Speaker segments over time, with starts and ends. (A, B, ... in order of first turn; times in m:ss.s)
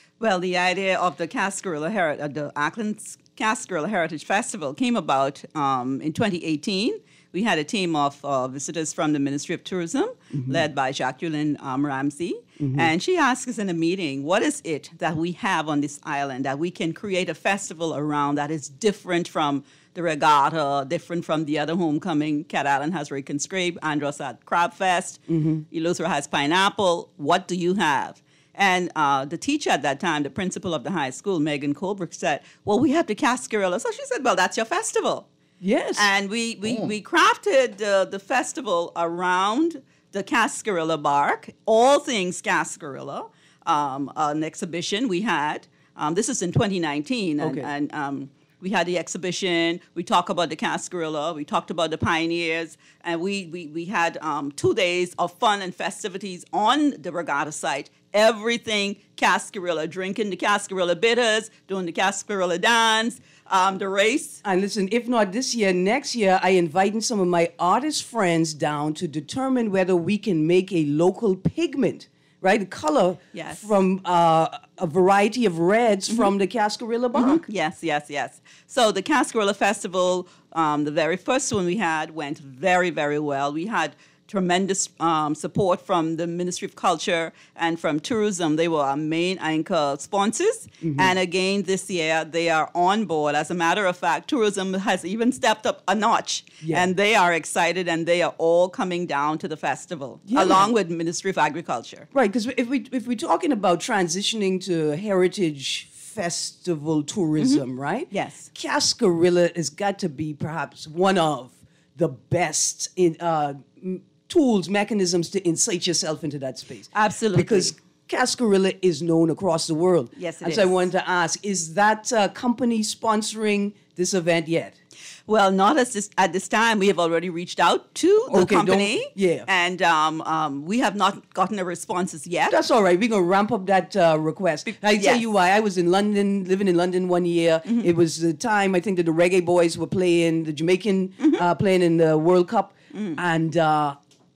0:00.2-0:25.2 A
0:10.3-0:10.6 B
0:12.6-0:12.9 B
0:25.3-0:25.6 B
0:25.7-0:35.3 A
0:35.6-0:36.1 B
0:36.0-1:04.4 A
0:47.4-0:47.7 B
1:04.4-1:17.4 B
1:13.3-1:13.7 A
1:17.1-1:42.1 A
1:30.8-1:31.1 B
1:36.6-1:36.9 B
1:40.3-1:40.7 B
1:42.1-2:04.8 B
1:47.4-1:48.5 A
1:56.9-1:57.7 A
2:00.2-2:00.8 A
2:05.3-2:12.6 A
2:08.3-2:09.5 B
2:12.5-2:24.0 B
2:14.6-2:15.2 A
2:22.9-2:23.2 A